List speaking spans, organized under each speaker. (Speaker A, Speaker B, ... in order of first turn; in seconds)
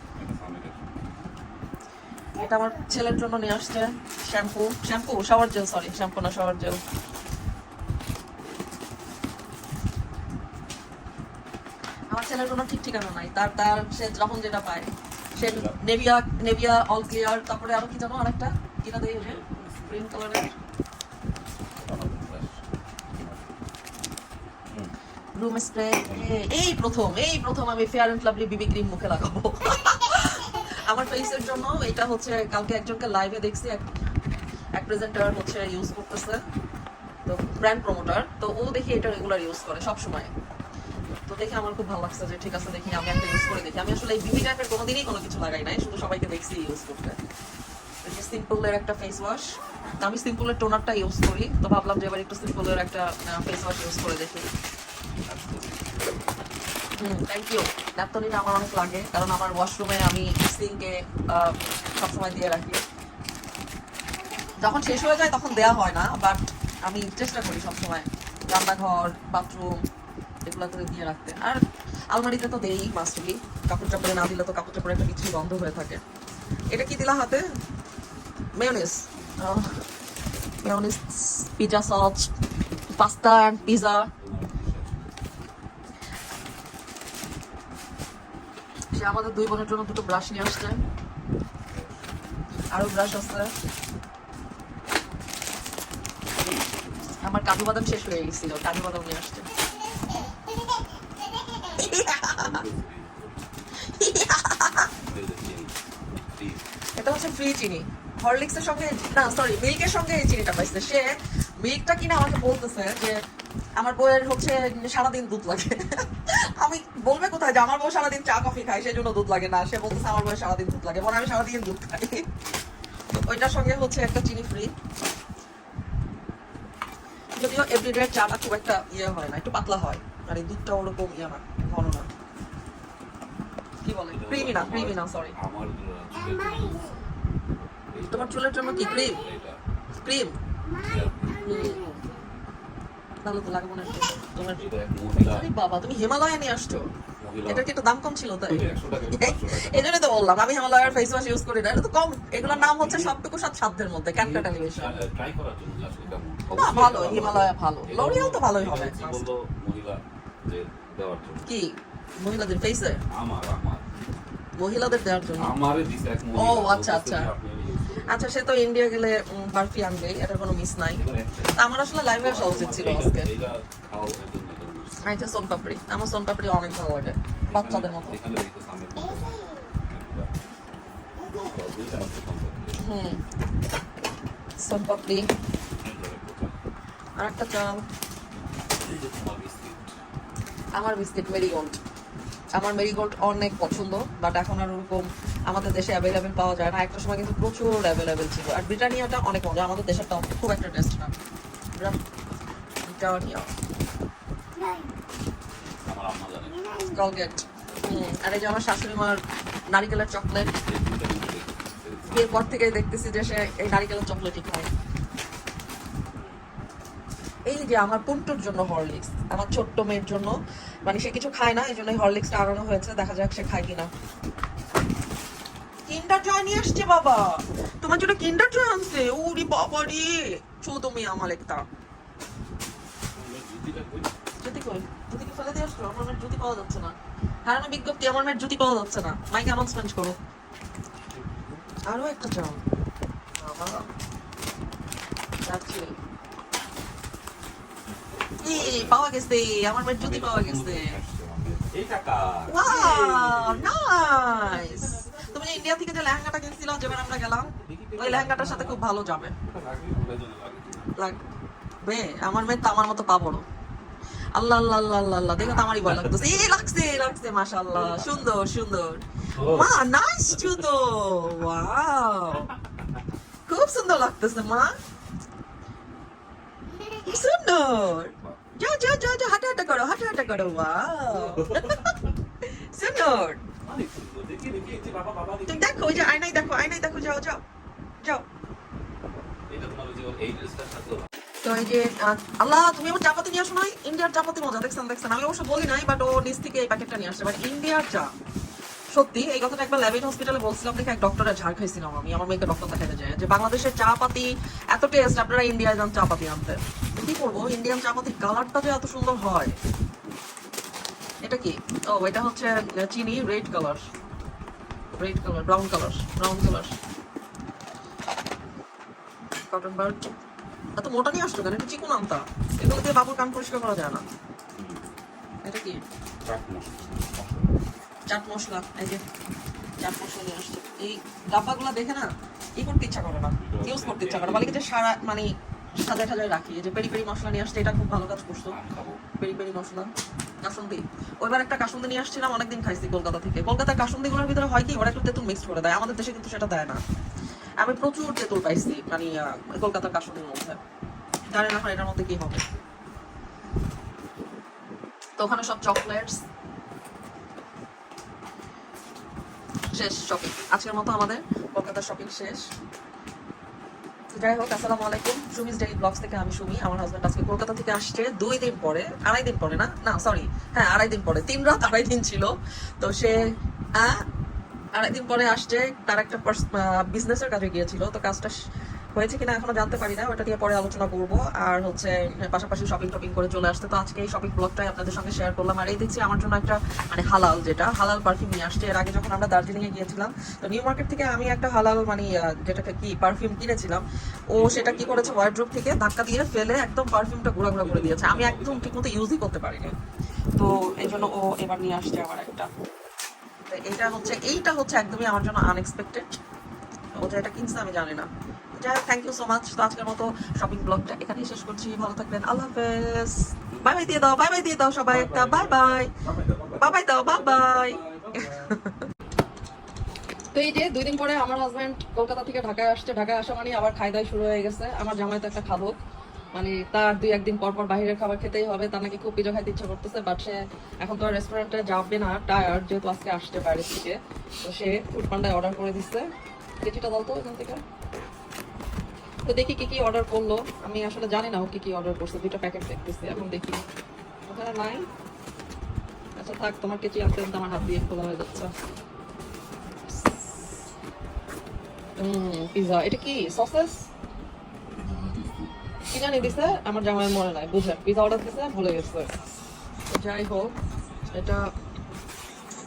Speaker A: 0.1-0.9, 15.3-15.8, 19.2-20.1, 21.8-23.5, 26.1-26.4, 55.1-56.3, 79.1-79.4, 83.6-85.2, 91.7-92.4, 96.3-97.2, 101.8-103.5, 105.0-106.6, 134.1-138.5, 139.1-139.6, 140.8-141.4, 144.6-145.4, 147.2-147.7, 148.5-150.0, 150.8-151.1, 152.4-153.2, 154.2-161.5, 163.1-163.9, 165.0-168.2, 170.9-175.1, 177.4-180.3, 181.2-182.8, 185.8-186.6, 188.7-189.9, 205.8-206.7, 210.6-212.6, 216.2-216.4, 233.1-234.1, 241.1-241.6, 248.2-249.1, 250.0-253.7, 254.3-255.6, 257.6-258.8, 259.4-260.9, 265.5-267.0, 267.7-268.3, 269.4-269.7, 277.8-278.5, 281.1-282.1, 283.6-285.7, 289.5-291.1, 324.5-324.9, 326.2-327.5, 333.4-334.6, 338.5-339.0, 394.3-395.2, 397.6-398.8, 400.4-401.1, 413.5-414.0, 414.9-418.6, 454.7-455.5, 456.2-456.5
Speaker B: 2.4-6.8, 12.1-20.5, 25.4-33.8, 34.7-36.4, 37.2-40.3, 41.2-47.2, 48.0-49.5, 50.0-54.5, 57.0-62.8, 64.6-69.8, 70.5-76.0, 76.7-77.5, 78.6-79.8, 80.6-82.3, 83.0-84.1, 88.9-90.8, 92.7-93.5, 97.2-99.5, 101.7-102.5, 103.8-104.9, 107.0-113.2, 113.8-122.2, 123.1-124.7, 127.4-132.1, 133.8-135.3, 138.1-139.2, 140.0-140.3, 141.4-142.0, 143.2-144.6, 145.2-146.9, 147.5-155.0, 156.5-159.2, 161.4-163.0, 164.6-165.5, 166.3-167.3, 168.1-173.3, 175.0-178.2, 182.8-183.2, 184.6-185.2, 187.2-187.8, 190.7-191.7, 192.6-201.1, 202.8-203.5, 206.9-209.2, 209.7-210.5, 212.1-214.7, 217.5-223.9, 225.9-231.6, 234.4-240.2, 241.8-242.6, 243.4-243.9, 245.4-246.0, 248.4-251.0, 252.5-259.3, 260.9-261.2, 261.8-263.4, 264.3-272.5, 273.5-274.7, 277.0-283.4, 285.5-287.4, 291.4-298.1, 298.9-309.5, 311.2-313.9, 315.0-316.8, 319.5-320.0, 320.8-324.0, 325.4-325.8, 328.1-329.0, 329.8-338.6, 339.2-339.9, 340.4-346.8, 347.6-350.6, 351.3-352.4, 355.2-356.2, 359.7-362.5, 364.1-374.0, 374.7-378.3, 378.9-399.8, 400.4-402.5, 403.5-406.2, 406.9-415.9, 416.6-418.8, 420.3-425.8, 426.3-436.1, 436.6-437.6, 439.3-443.6, 444.3-444.9, 446.1-448.5, 452.0-453.9, 455.9-459.1, 459.9-460.5, 461.1-461.4